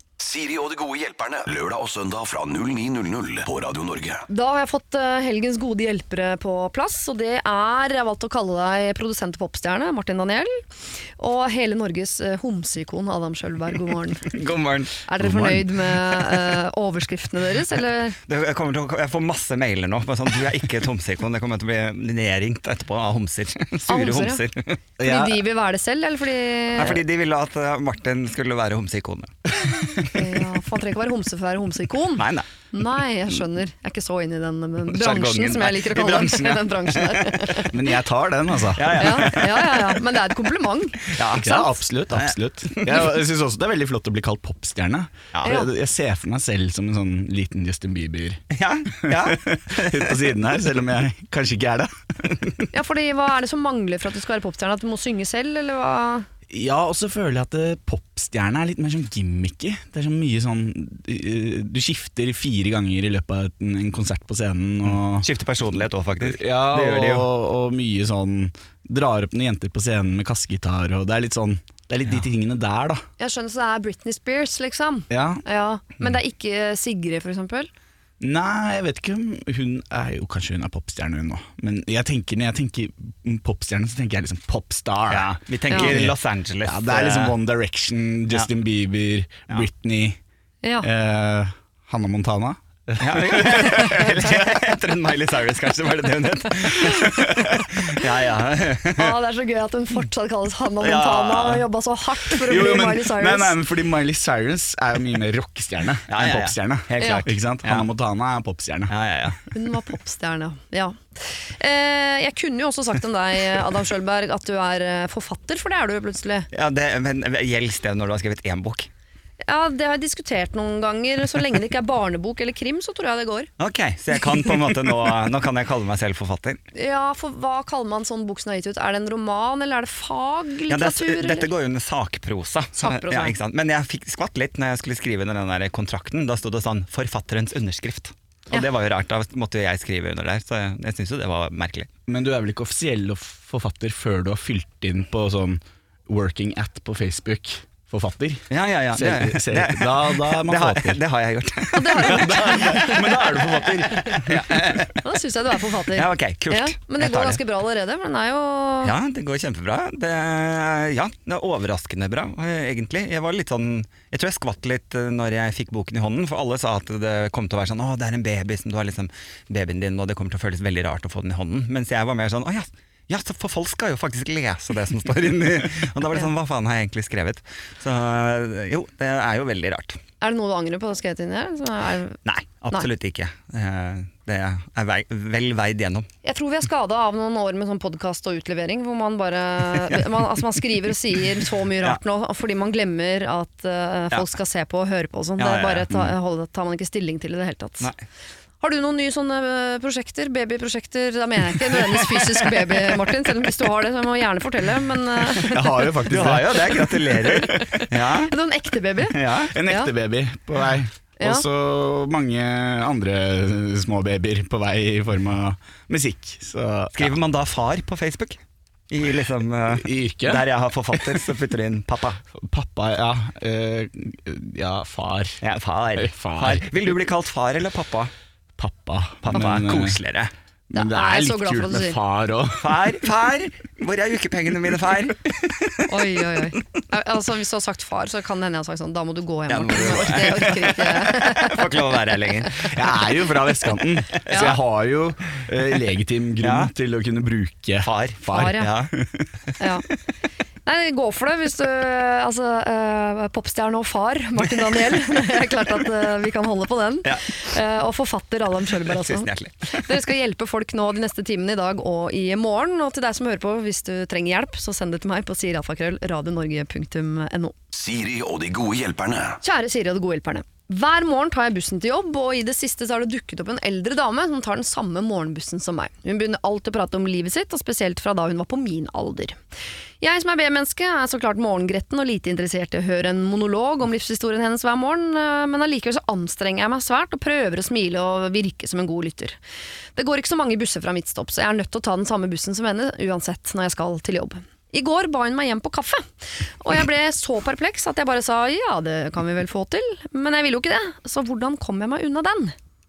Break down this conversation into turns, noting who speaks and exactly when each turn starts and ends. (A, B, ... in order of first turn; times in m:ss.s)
0:00.2-0:04.3 A
0:04.3-0:14.3 B
0:14.2-0:16.2 C
0:15.1-0:18.2 B
0:15.2-0:15.6 D
0:18.3-0:24.8 C
0:23.9-0:24.4 B
0:25.0-0:25.4 D
0:25.0-0:27.0 B
0:26.8-0:30.2 C
0:30.0-0:37.8 B
0:32.2-0:32.5 C
0:34.9-0:37.3 C
0:37.6-0:39.5 D
0:38.8-0:39.9 C
0:39.0-0:41.7 B
0:41.1-0:43.1 C
0:41.3-0:48.4 D
0:45.3-0:45.6 C
0:45.4-0:45.7 B
0:48.5-0:50.3 C
0:49.0-0:52.5 D
0:52.7-0:56.3 B
0:56.5-1:05.3 D
1:04.8-1:07.3 C
1:06.2-1:13.0 D
1:13.2-1:17.7 B
1:15.1-1:15.4 D
1:18.2-1:30.2 D
1:25.1-1:27.3 C
1:25.7-1:26.0 B
1:30.8-1:34.4 D
1:33.0-1:39.2 C
1:36.9-1:37.6 D
1:39.0-1:43.6 B
1:40.8-1:41.6 C
1:42.5-1:48.9 D
1:46.1-1:47.9 C
1:48.9-1:49.4 C
1:49.5-1:56.5 B
1:56.5-1:58.9 C
1:59.4-2:03.5 B
2:03.6-2:06.6 C
2:06.8-2:11.5 B
2:10.7-2:21.9 C
2:12.8-2:13.4 B
2:22.1-2:31.0 D
2:28.5-2:35.0 C
2:31.7-2:33.1 B
2:32.0-2:34.8 D
2:34.0-2:34.2 B
2:35.0-2:38.9 B
2:35.9-2:37.4 C
2:38.8-3:00.0 C
3:00.2-3:02.2 B
3:02.3-3:06.1 C
3:06.2-3:17.9 B
3:15.4-3:16.1 C
3:18.6-3:25.9 B
3:25.4-3:27.8 D
3:26.0-3:28.3 C
3:27.4-3:29.9 B
3:29.1-3:29.5 C
3:29.5-3:37.2 D
3:31.2-3:31.4 B
3:36.9-3:42.2 C
3:39.7-3:41.2 D
3:42.4-3:45.4 D
3:45.4-3:48.1 C
3:46.0-3:46.9 D
3:48.6-3:50.0 D
3:49.2-3:50.3 C
3:50.7-3:52.8 D
3:50.7-3:52.0 B
3:52.6-3:55.8 C
3:55.9-4:01.9 B
3:59.5-4:02.8 C
3:59.8-4:00.5 D
4:02.6-4:09.3 D
4:04.3-4:04.6 C
4:04.3-4:04.5 B
4:06.4-4:06.7 C
4:07.8-4:08.9 C
4:08.2-4:08.7 B
4:10.6-4:27.5 B
4:17.0-4:17.4 C
4:18.9-4:19.9 C
4:27.7-4:29.4 A
4:29.4-4:39.4 B
4:40.0-4:49.4 B
4:50.0-5:02.6 B